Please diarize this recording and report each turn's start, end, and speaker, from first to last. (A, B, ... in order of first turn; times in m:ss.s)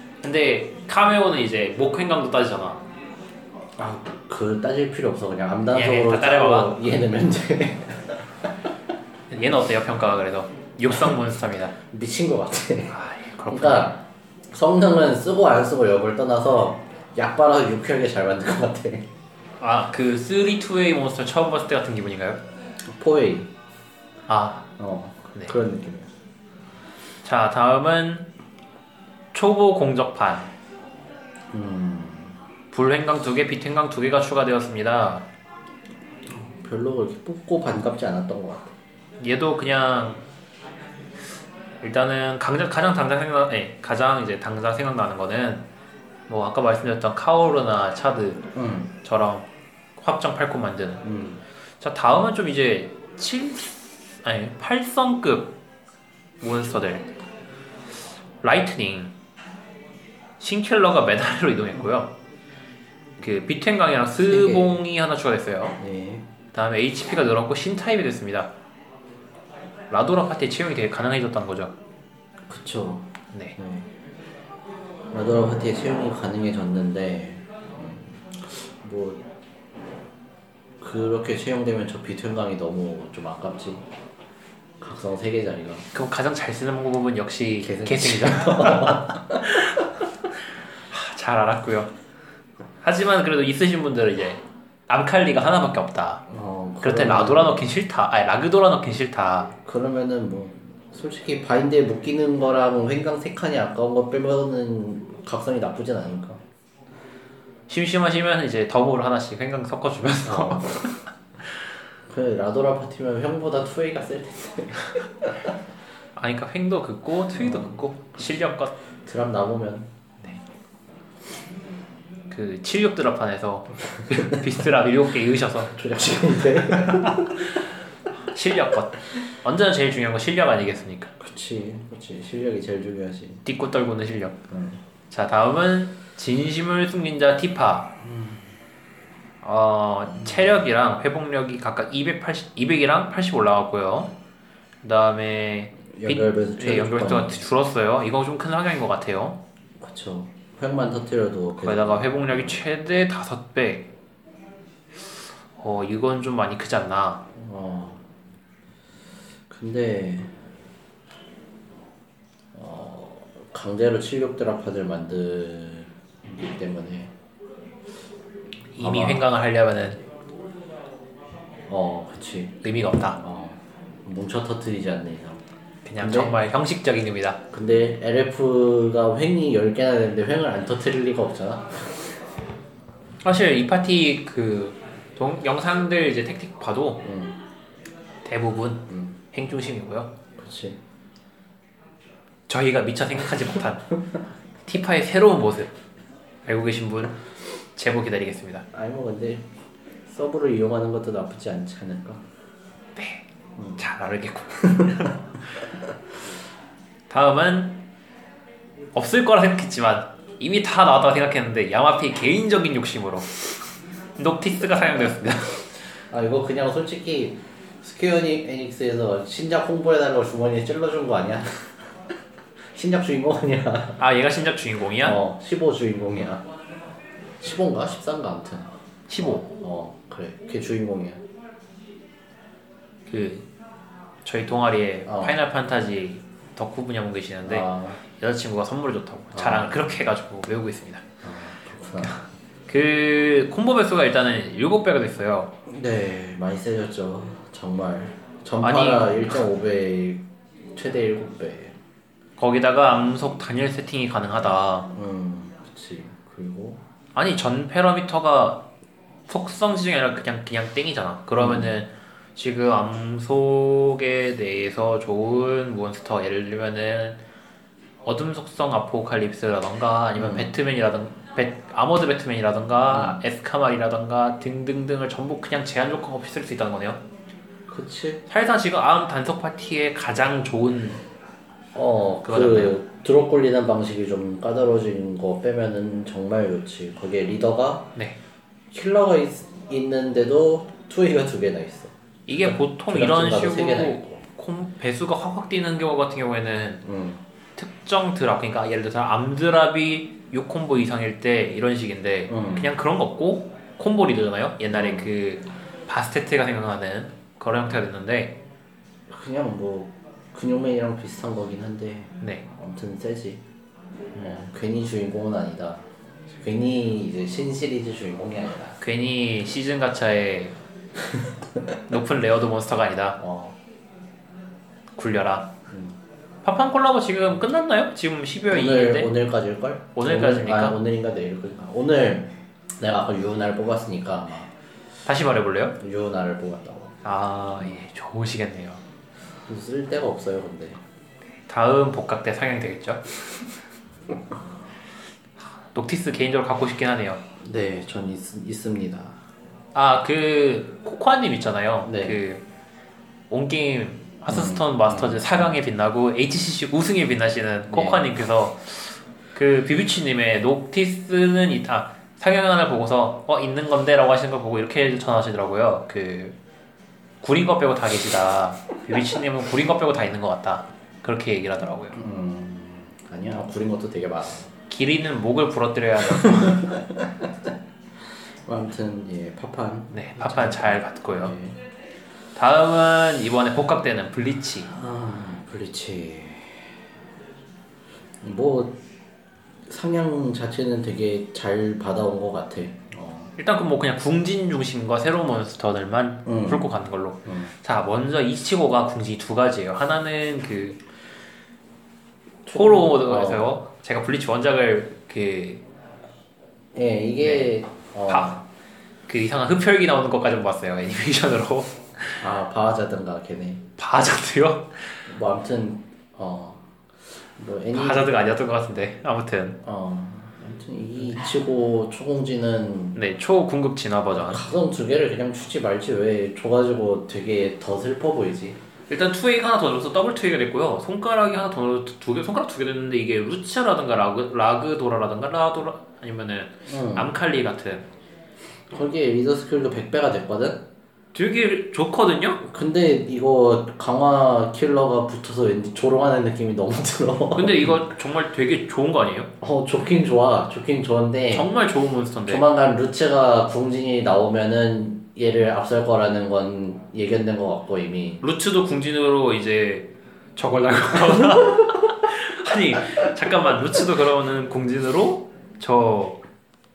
0:00.2-0:02.8 A
0:03.8-0:08.3 B
0:05.7-0:06.8 A
0:09.3-0:11.7 A
0:11.9-0:13.0 B
0:12.9-0:13.9 A
0:13.5-0:19.1 B
0:19.6-0:22.4 A
0:22.9-0:23.5 B
0:24.3-0:24.7 A
0:24.8-0:26.1 B
0:27.2-0:28.3 A
0:29.3-0:30.5 A
0:31.5-0:32.4 B
0:32.7-0:35.2 A
0:36.3-0:38.7 B
0:39.2-0:40.2 A
0:41.8-0:45.6 A
0:46.3-0:48.4 A
0:48.5-0:48.9 B
0:49.0-0:49.5 A
0:50.0-0:51.1 A
0:51.0-0:51.4 B
0:51.8-0:55.6 A
0:56.4-0:57.1 A
0:58.4-0:59.1 A
1:00.4-1:02.1 A
1:03.2-1:05.8 A
1:04.2-1:04.8 B
1:05.8-1:06.2 B
1:06.5-1:08.5 A
1:09.9-1:11.8 A
1:12.5-1:13.9 B
1:15.1-1:19.2 B
1:20.8-1:23.8 B
1:24.8-1:25.9 B
1:25.9-1:29.9 A
1:27.6-1:29.4 B
1:30.9-1:31.9 A
1:32.8-1:36.2 A
1:36.3-1:37.6 B
1:36.8-1:39.5 A
1:39.6-1:46.4 B
1:47.7-1:51.0 A
1:50.2-1:50.9 B
1:52.1-1:55.5 B
1:56.2-1:58.7 A
1:57.4-1:57.7 B
1:59.0-1:59.9 B
2:02.3-2:05.7 A
2:05.7-2:07.4 B
2:06.8-2:07.6 A
2:08.3-2:11.1 A
2:11.2-2:13.4 B
2:13.4-2:14.5 A
2:14.5-2:14.8 B
2:15.1-2:17.9 A
2:18.0-2:18.4 B
2:19.4-2:24.1 A
2:20.2-2:20.5 B
2:24.8-2:29.4 A
2:25.9-2:27.4 B
2:29.8-2:32.6 B
2:31.6-2:33.9 A
2:35.6-2:37.2 A
2:37.3-2:38.0 B
2:39.5-2:40.3 B
2:42.5-2:47.1 B
2:48.7-2:50.0 A
2:48.8-2:49.2 B
2:51.7-2:52.6 B
2:52.6-2:53.2 A
2:53.2-2:55.4 B
2:55.8-2:57.4 A
2:56.0-2:56.3 B
2:57.5-3:02.1 B
3:03.2-3:07.0 A
3:07.0-3:07.4 B
3:08.2-3:10.1 A
3:08.9-3:09.2 B
3:10.4-3:10.8 B
3:12.5-3:14.0 A
3:14.6-3:15.7 A
3:16.4-3:17.2 A
3:17.8-3:18.6 A
3:18.7-3:19.5 B
3:20.1-3:22.2 B
3:23.0-3:23.2 A
3:23.6-3:23.8 B
3:23.8-3:25.2 A
3:24.6-3:25.1 B
3:27.1-3:27.8 A
3:28.9-3:33.6 A
3:34.2-3:35.7 A
3:36.1-3:41.8 B
3:42.7-3:44.0 B
3:44.0-3:45.2 A
3:45.0-3:46.5 B
3:47.4-3:51.2 B
3:49.1-3:49.5 A
3:53.1-3:53.5 A
3:54.2-4:01.0 A
3:55.0-3:55.4 B
3:57.4-3:58.0 B
3:59.3-3:59.9 B
4:01.2-4:02.2 B
4:02.0-4:05.5 A
4:05.7-4:11.7 B
4:08.6-4:09.3 A
4:12.4-4:14.9 A
4:14.9-4:16.8 B
4:17.1-4:18.7 A
4:19.3-4:27.2 A
4:21.4-4:21.7 B
4:28.0-4:37.0 A
4:30.1-4:30.5 B
4:32.9-4:33.2 B
4:37.7-4:38.2 B
4:38.3-4:41.0 A
4:41.7-4:47.9 B
4:42.2-4:42.8 A
4:48.7-4:54.2 B
4:52.3-4:56.8 A
4:56.8-4:57.2 B
4:57.6-5:08.4 A
5:02.3-5:02.7 B
5:04.7-5:05.1 B
5:09.1-5:13.4 B
5:14.2-5:18.8 B
5:18.8-5:20.5 A
5:21.9-5:23.2 A
5:23.2-5:23.6 B
5:25.0-5:25.5 A
5:25.7-5:26.0 B
5:26.4-5:29.1 A
5:28.5-5:34.5 B
5:30.0-5:30.8 A
5:35.0-5:35.8 A
5:35.8-5:37.0 B
5:37.0-5:38.8 A
5:39.5-5:40.8 B
5:41.5-5:43.4 A
5:45.6-5:47.2 A
5:47.4-5:49.2 B
5:49.7-5:52.4 A
5:51.8-5:52.2 B
5:53.3-6:06.4 A
5:54.3-5:55.5 B
5:57.7-5:58.0 B
6:07.2-6:12.0 A
6:11.9-6:14.5 B
6:14.7-6:16.7 A
6:16.1-6:17.3 B
6:18.4-6:21.5 B
6:19.9-6:21.3 A
6:22.4-6:24.7 A
6:24.7-6:26.8 B
6:28.2-6:28.8 B
6:29.6-6:33.3 B
6:33.4-6:40.8 A
6:36.2-6:36.6 B
6:42.4-6:43.5 B
6:42.5-6:45.6 A
6:46.7-6:48.4 B
6:47.2-6:47.5 A
6:48.1-6:48.4 A
6:49.1-6:52.2 A
6:52.2-6:53.6 B
6:53.8-6:55.0 A
6:55.1-6:56.7 B
6:57.4-6:58.1 B
6:57.7-6:59.6 A
6:59.6-7:03.0 B
7:02.9-7:04.4 A
7:04.2-7:08.6 B
7:08.9-7:17.8 A
7:16.7-7:17.1 B
7:18.7-7:20.6 B
7:21.1-7:22.4 A
7:22.4-7:27.8 B
7:27.3-7:29.3 A
7:29.4-7:31.5 B
7:31.3-7:32.4 A
7:32.2-7:38.2 B
7:38.2-7:46.2 A